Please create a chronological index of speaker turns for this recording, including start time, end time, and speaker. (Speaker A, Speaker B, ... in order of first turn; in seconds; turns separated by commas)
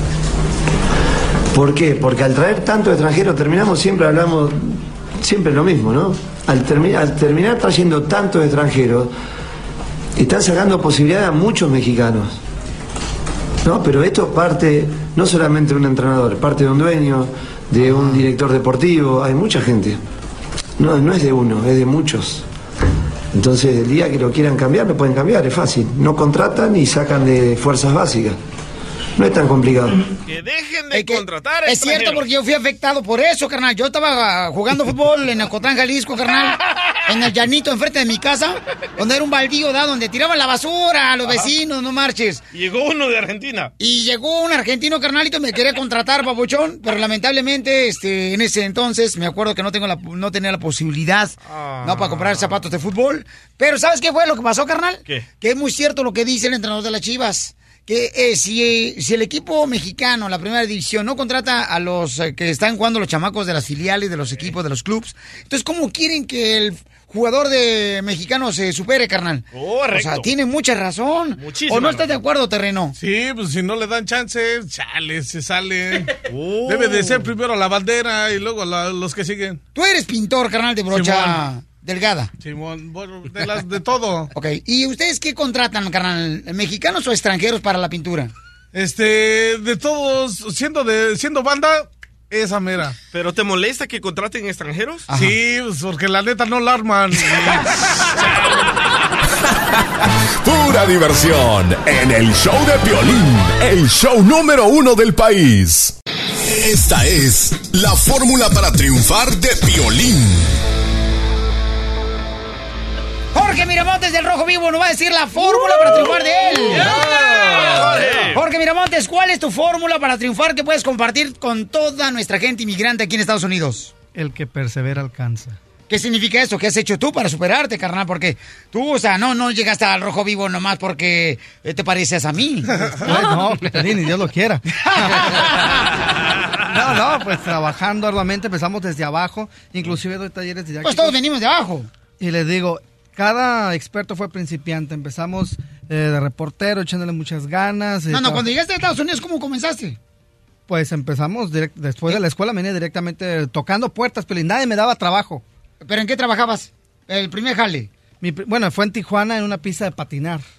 Speaker A: 1.5-9.1, Speaker A: 10.2-12.4, Speaker A: 13.6-20.0, Speaker A: 20.8-22.4, Speaker A: 23.3-28.4, Speaker A: 29.2-30.0, Speaker B: 30.3-32.2, Speaker C: 30.9-42.4, Speaker B: 42.5-43.7, Speaker C: 43.8-73.0, Speaker B: 51.5-52.6, Speaker B: 69.5-70.3, Speaker B: 71.4-72.2, Speaker D: 73.0-76.1, Speaker B: 76.3-77.3, Speaker D: 76.6-79.6, Speaker C: 79.7-82.3, Speaker D: 80.9-81.4, Speaker D: 82.4-84.3, Speaker C: 84.3-88.3, Speaker D: 88.7-93.0, Speaker B: 93.1-95.1, Speaker C: 95.1-95.4, Speaker D: 95.1-97.7, Speaker E: 100.4-110.6, Speaker C: 113.3-117.0, Speaker B: 115.9-116.2, Speaker B: 116.9-118.4, Speaker D: 117.1-117.8, Speaker C: 117.8-123.9, Speaker F: 124.1-125.6, Speaker C: 125.9-133.3, Speaker F: 133.0-135.4, Speaker C: 134.8-135.7, Speaker F: 136.7-141.2, Speaker C: 140.8-141.9, Speaker F: 142.2-148.5, Speaker C: 148.1-150.0, Speaker F: 150.7-155.4, Speaker C: 155.8-157.9, Speaker F: 158.2-160.4